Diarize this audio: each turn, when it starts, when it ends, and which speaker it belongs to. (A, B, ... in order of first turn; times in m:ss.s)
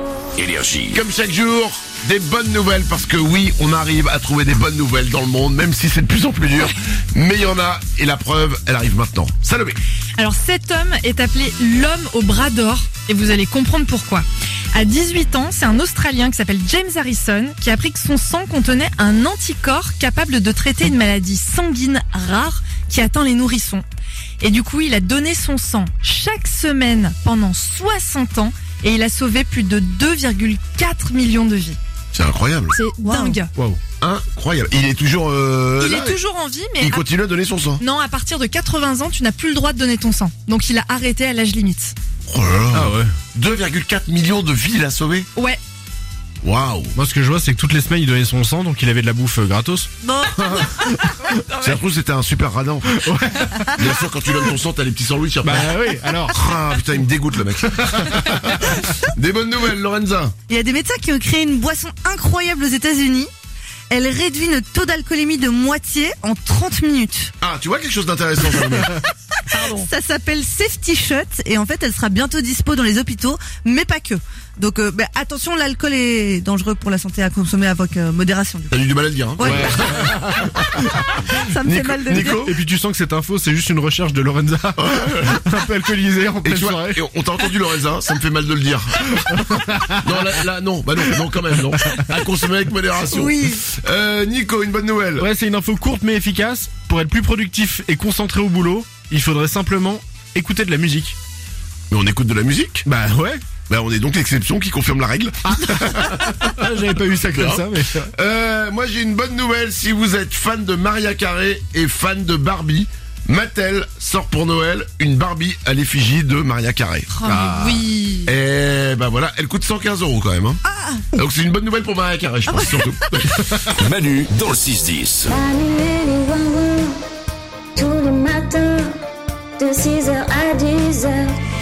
0:00.4-0:01.0 A
0:00.9-0:09.8 B
0:10.2-0:23.8 C
0:24.4-0:31.8 C
0:32.1-0:32.8 B
0:32.7-0:33.5 C
0:33.0-0:33.4 D
0:33.5-0:33.8 E
0:34.0-0:36.2 B
0:35.8-0:37.0 C
0:36.8-0:37.8 B
0:37.8-0:41.9 C
0:42.3-0:45.3 B
0:42.7-0:43.1 E
0:46.4-0:46.9 B
0:47.0-0:51.6 E
0:50.1-0:50.7 D
0:51.6-0:52.9 B
0:52.9-0:53.8 E
0:53.7-0:55.7 B
0:55.4-0:56.4 E
0:56.3-1:00.3 B
0:57.8-0:58.8 E
1:00.5-1:03.3 D
1:03.9-1:07.3 D
1:07.4-1:09.0 B
1:09.5-1:09.9 C
1:09.7-1:18.7 D
1:18.7-1:21.1 B
1:19.4-1:22.4 D
1:19.4-1:20.4 E
1:21.6-1:22.6 B
1:22.3-1:27.0 E
1:24.8-1:25.4 B
1:26.4-1:29.2 B
1:29.1-1:30.4 E
1:30.0-1:35.3 B
1:33.1-1:33.6 D
1:35.2-1:41.2 E
1:41.9-1:42.8 B
1:42.8-1:43.4 E
1:43.7-1:46.4 B
1:45.4-1:48.1 E
1:47.3-2:03.9 B
1:57.1-1:58.3 C
2:00.7-2:01.1 D
2:03.8-2:05.3 A
2:05.2-2:07.1 F
2:07.8-2:11.4 F